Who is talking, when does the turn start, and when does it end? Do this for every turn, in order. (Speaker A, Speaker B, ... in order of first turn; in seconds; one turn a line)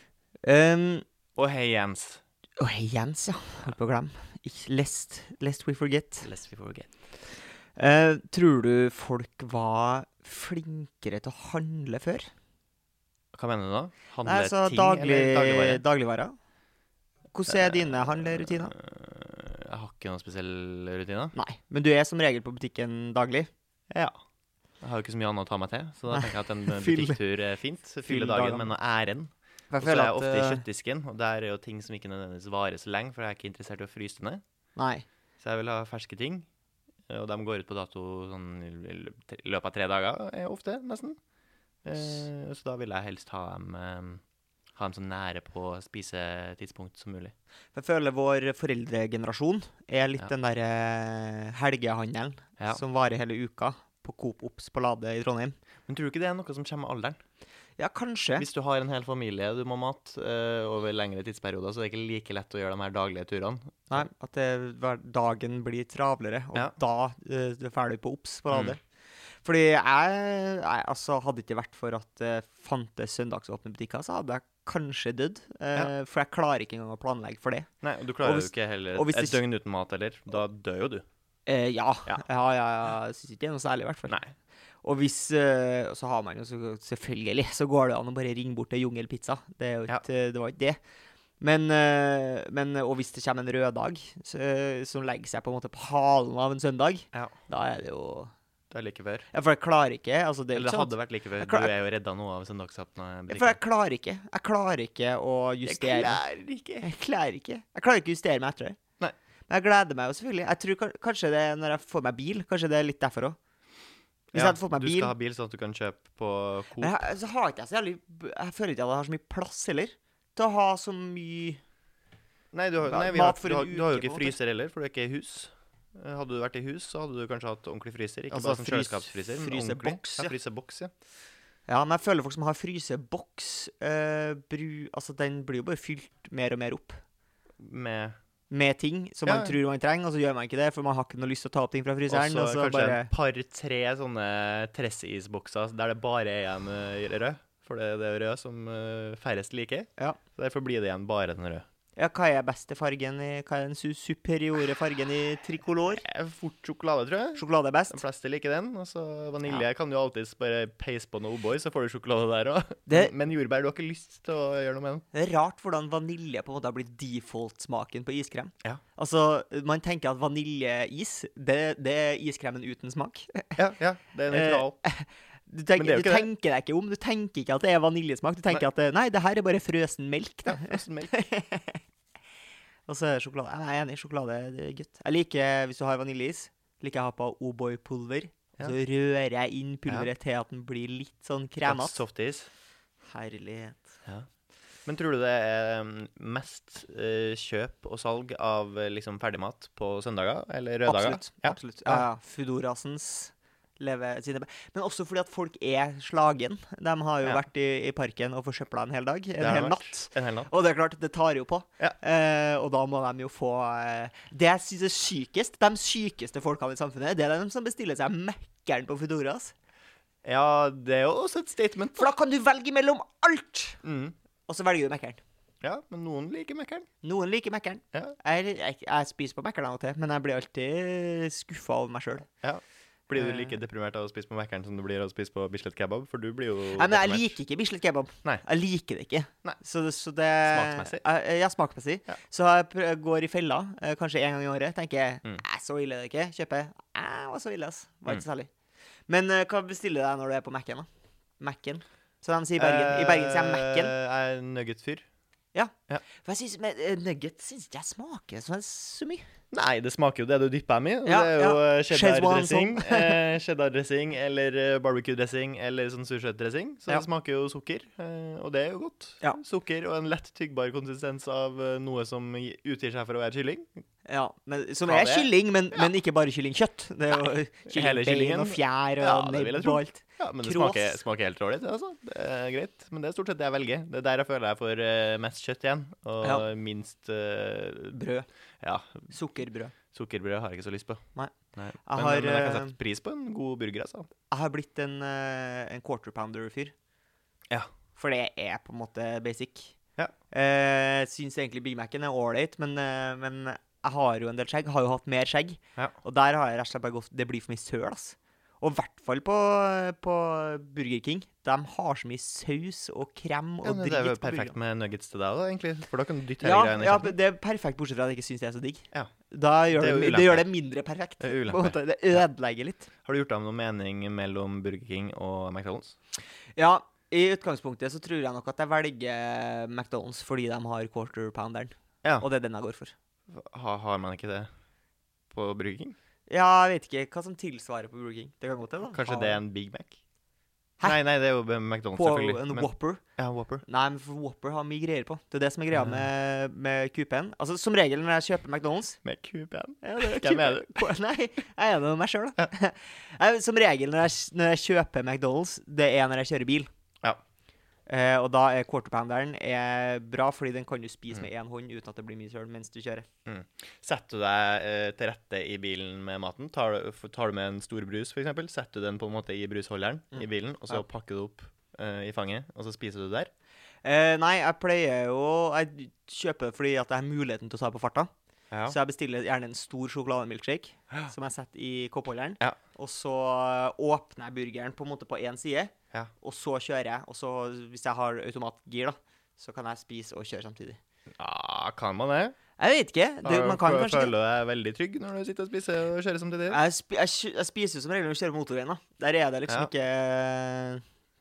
Speaker A: 0.4-1.0
Speaker B: 1.4-2.2
Speaker A: 2.6-6.3
Speaker B: 6.2-6.9
Speaker A: 7.8-12.3
Speaker B: 13.3-15.8
Speaker A: 14.2-16.3
Speaker A: 17.3-18.7
Speaker B: 17.5-21.4
Speaker A: 21.4-24.1
Speaker B: 24.8-34.4
Speaker A: 26.1-27.2
Speaker A: 28.1-28.7
Speaker A: 29.7-30.6
Speaker A: 34.8-35.0
Speaker B: 35.4-36.5
Speaker B: 37.1-41.2
Speaker B: 41.9-44.2
Speaker B: 44.8-47.3
Speaker A: 47.8-55.6
Speaker B: 55.9-57.2
Speaker A: 57.8-58.5
Speaker B: 58.4-64.0
Speaker A: 63.9-68.8
Speaker B: 68.5-68.8
Speaker A: 69.4-77.7
Speaker B: 77.8-81.0
Speaker A: 78.2-79.4
Speaker A: 81.5-84.2
Speaker A: 84.8-90.8
Speaker A: 91.4-98.3
Speaker B: 98.7-99.3
Speaker A: 99.3-101.7
Speaker B: 100.5-103.6
Speaker A: 103.3-106.2
Speaker B: 105.7-106.9
Speaker A: 106.8-108.8
Speaker A: 109.5-113.4
Speaker B: 114.3-117.0
Speaker A: 114.3-115.1
Speaker A: 116.8-121.6
Speaker B: 122.5-130.9
Speaker A: 122.8-124.4
Speaker A: 128.3-130.3
Speaker A: 131.7-137.0
Speaker B: 137.6-138.2
Speaker A: 138.5-143.1
Speaker B: 139.3-139.6
Speaker B: 142.1-151.6
Speaker A: 152.0-156.1
Speaker B: 156.0-165.1
Speaker A: 157.3-158.0
Speaker A: 162.9-163.1
Speaker A: 165.1-173.6
Speaker B: 173.6-174.8
Speaker A: 174.3-181.8
Speaker B: 175.8-176.3
Speaker B: 180.5-181.1
Speaker A: 182.9-192.0
Speaker B: 191.6-192.5
Speaker A: 193.1-194.0
Speaker B: 194.9-202.1
Speaker A: 200.9-219.5
Speaker B: 209.4-210.5
Speaker B: 220.2-222.1
Speaker A: 222.0-223.8
Speaker B: 223.8-224.2
Speaker A: 224.5-225.2
Speaker B: 225.6-226.9
Speaker A: 227.0-232.3
Speaker B: 232.4-237.3
Speaker A: 233.2-233.5
Speaker A: 236.8-248.5
Speaker B: 240.5-241.0
Speaker A: 249.1-250.9
Speaker A: 251.4-253.9
Speaker B: 252.6-255.1
Speaker A: 255.5-259.2
Speaker B: 259.5-273.8
Speaker A: 261.1-263.2
Speaker A: 274.1-281.0
Speaker B: 274.9-275.9
Speaker B: 277.7-288.0
Speaker A: 287.9-288.3
Speaker B: 288.6-289.1
Speaker A: 289.1-289.8
Speaker B: 289.9-291.0
Speaker B: 291.6-294.1
Speaker A: 291.9-292.8
Speaker A: 294.3-296.7
Speaker A: 298.0-299.8
Speaker A: 300.3-314.5
Speaker B: 313.6-317.1
Speaker A: 316.4-322.9
Speaker B: 319.7-320.5
Speaker B: 321.2-322.2
Speaker B: 323.0-326.0
Speaker A: 326.6-332.9
Speaker B: 333.3-334.5
Speaker B: 335.3-336.0
Speaker A: 336.3-339.4
Speaker B: 338.9-340.0
Speaker B: 340.8-343.6
Speaker A: 341.9-343.0
Speaker A: 343.7-349.0
Speaker B: 345.7-346.1
Speaker B: 349.0-350.8
Speaker A: 349.8-356.7
Speaker A: 357.9-363.1
Speaker B: 363.3-373.3
Speaker A: 370.1-370.8
Speaker A: 373.8-378.1
Speaker B: 378.5-378.8
Speaker A: 378.7-390.8
Speaker B: 391.2-392.4
Speaker A: 392.6-394.1
Speaker B: 393.2-396.6
Speaker A: 396.5-400.8